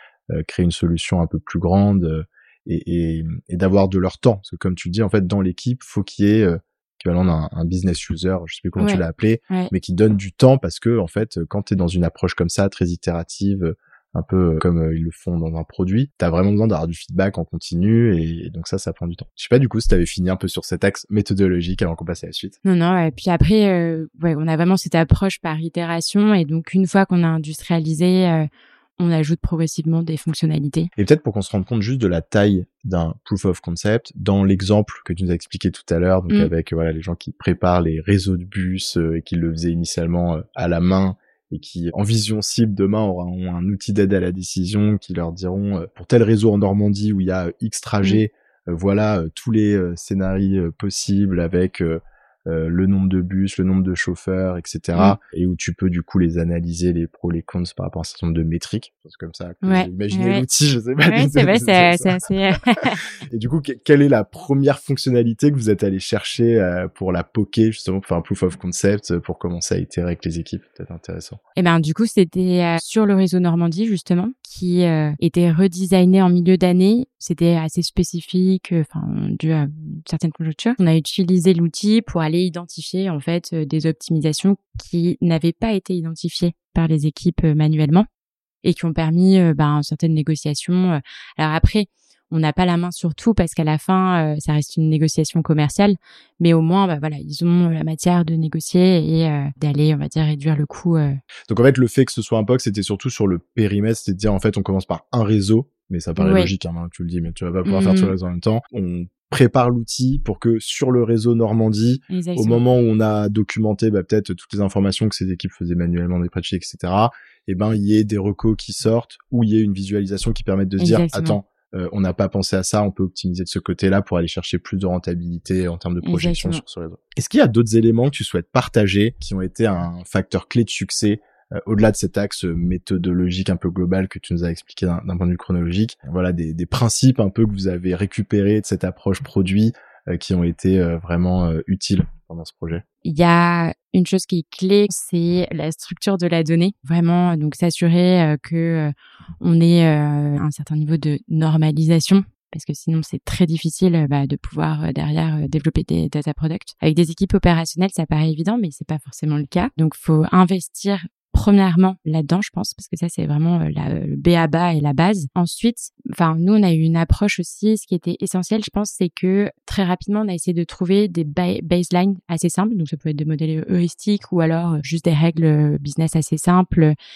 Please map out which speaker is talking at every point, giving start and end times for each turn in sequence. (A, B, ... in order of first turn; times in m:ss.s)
0:00.3-0:22.6 A
0:08.8-0:09.7 B
0:22.6-0:30.9 B
0:31.0-1:02.2 A
0:59.6-1:00.4 B
1:01.1-1:03.0 B
1:02.8-1:11.4 A
1:11.6-1:28.1 B
1:28.6-1:41.2 B
1:41.5-2:22.8 A
1:46.2-1:46.5 B
1:47.6-1:48.1 B
1:52.1-1:52.6 B
2:00.8-2:01.4 B
2:06.0-2:06.6 B
2:23.0-2:57.0 B